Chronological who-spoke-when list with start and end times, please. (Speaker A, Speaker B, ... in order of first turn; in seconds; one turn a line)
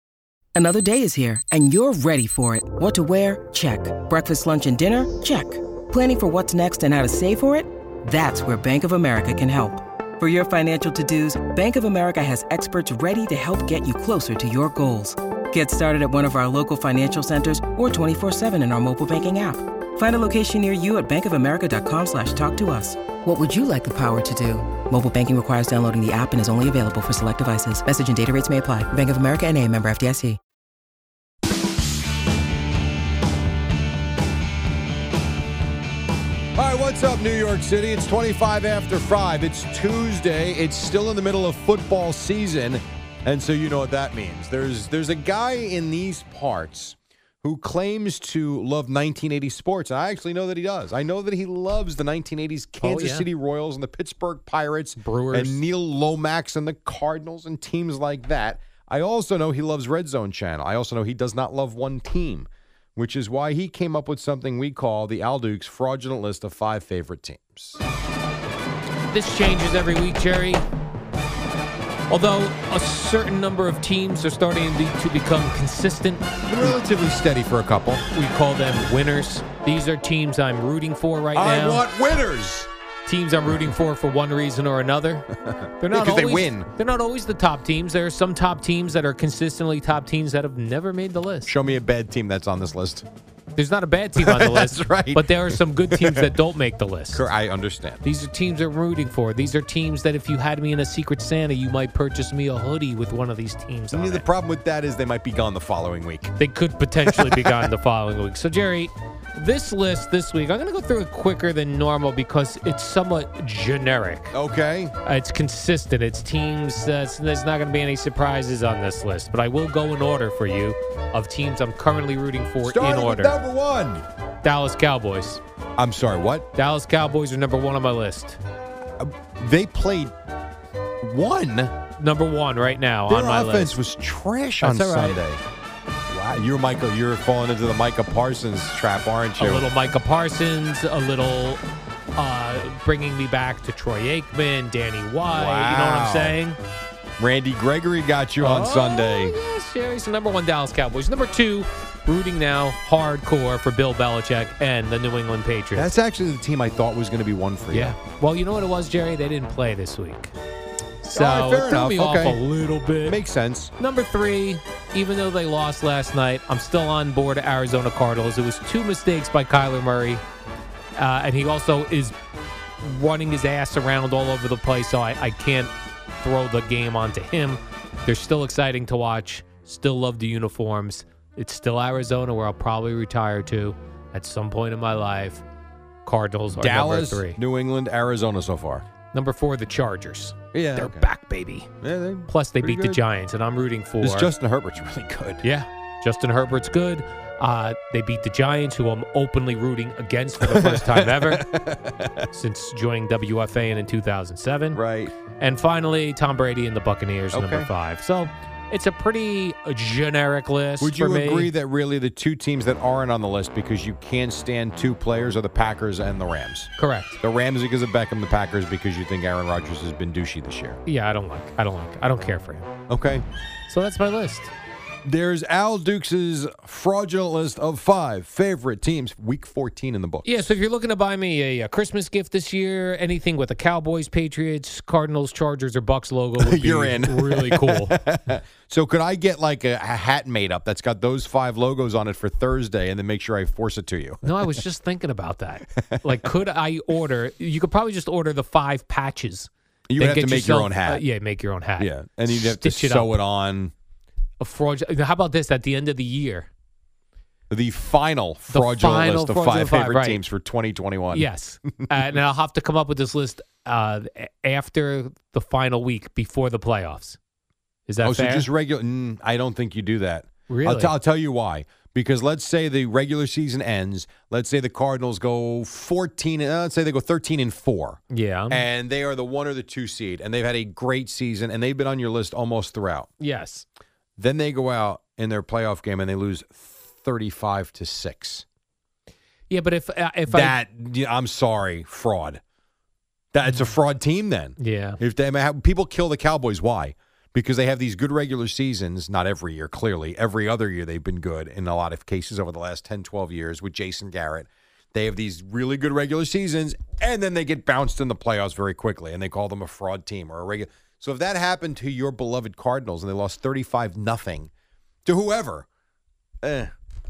Speaker A: 0.6-30.4
Speaker B: 36.6-67.8
Speaker C: 52.8-53.3
Speaker C: 55.0-55.6
Speaker C: 69.1-70.6
Speaker C: 72.1-76.3
Speaker B: 76.5-78.0
Speaker C: 78.1-81.9
Speaker B: 81.3-82.7
Speaker C: 83.1-85.3
Speaker B: 85.5-86.7
Speaker C: 85.8-91.5
Speaker B: 91.5-93.1
Speaker C: 93.6-97.2
Speaker B: 94.2-96.3
Speaker B: 97.1-98.0
Speaker C: 98.0-104.3
Speaker B: 103.9-106.3
Speaker C: 106.4-114.3
Speaker B: 107.0-107.7
Speaker B: 114.3-114.9
Speaker C: 115.0-123.3
Speaker B: 122.6-124.0
Speaker C: 124.4-125.4
Speaker B: 125.8-126.5
Speaker C: 126.6-128.4
Speaker B: 129.0-130.1
Speaker B: 131.0-131.8
Speaker C: 132.0-133.8
Speaker B: 133.1-135.4
Speaker C: 134.6-135.2
Speaker B: 136.1-139.7
Speaker C: 139.4-141.6
Speaker C: 142.2-146.6
Speaker B: 145.3-146.4
Speaker B: 147.2-149.4
Speaker C: 148.4-155.9
Speaker B: 155.8-158.0
Speaker C: 157.7-160.3
Speaker C: 161.0-163.2
Speaker B: 161.1-162.4
Speaker B: 163.0-163.7
Speaker C: 163.8-170.2
Speaker C: 171.0-172.2
Speaker C: 172.8-185.4
Speaker C: 186.1-187.4
Speaker B: 186.5-188.8
Speaker C: 189.1-191.7
Speaker B: 190.5-191.1
Speaker B: 191.8-193.0
Speaker C: 192.3-194.3
Speaker B: 194.0-195.4
Speaker C: 195.4-201.5
Speaker B: 200.4-202.3
Speaker C: 202.3-204.8
Speaker B: 204.7-205.1
Speaker C: 205.4-211.5
Speaker B: 207.3-207.7
Speaker B: 210.8-220.8
Speaker C: 216.8-217.2
Speaker C: 220.9-222.7
Speaker B: 222.9-223.2
Speaker C: 223.7-224.5
Speaker B: 225.1-230.6
Speaker C: 230.2-238.0
Speaker B: 236.4-244.6
Speaker C: 244.2-253.1
Speaker B: 245.8-246.2
Speaker B: 249.9-251.0
Speaker B: 251.8-253.7
Speaker C: 254.4-256.5
Speaker B: 257.5-261.9
Speaker C: 258.5-260.2
Speaker C: 261.1-267.2
Speaker C: 267.9-268.5
Speaker B: 268.0-283.1
Speaker C: 270.5-270.9
Speaker C: 278.1-278.6
Speaker C: 283.2-283.7
Speaker B: 284.2-288.4
Speaker C: 289.5-290.6
Speaker B: 290.3-292.4
Speaker B: 293.3-314.5
Speaker C: 293.4-293.7
Speaker C: 294.6-295.0
Speaker B: 315.1-315.7
Speaker B: 316.4-316.7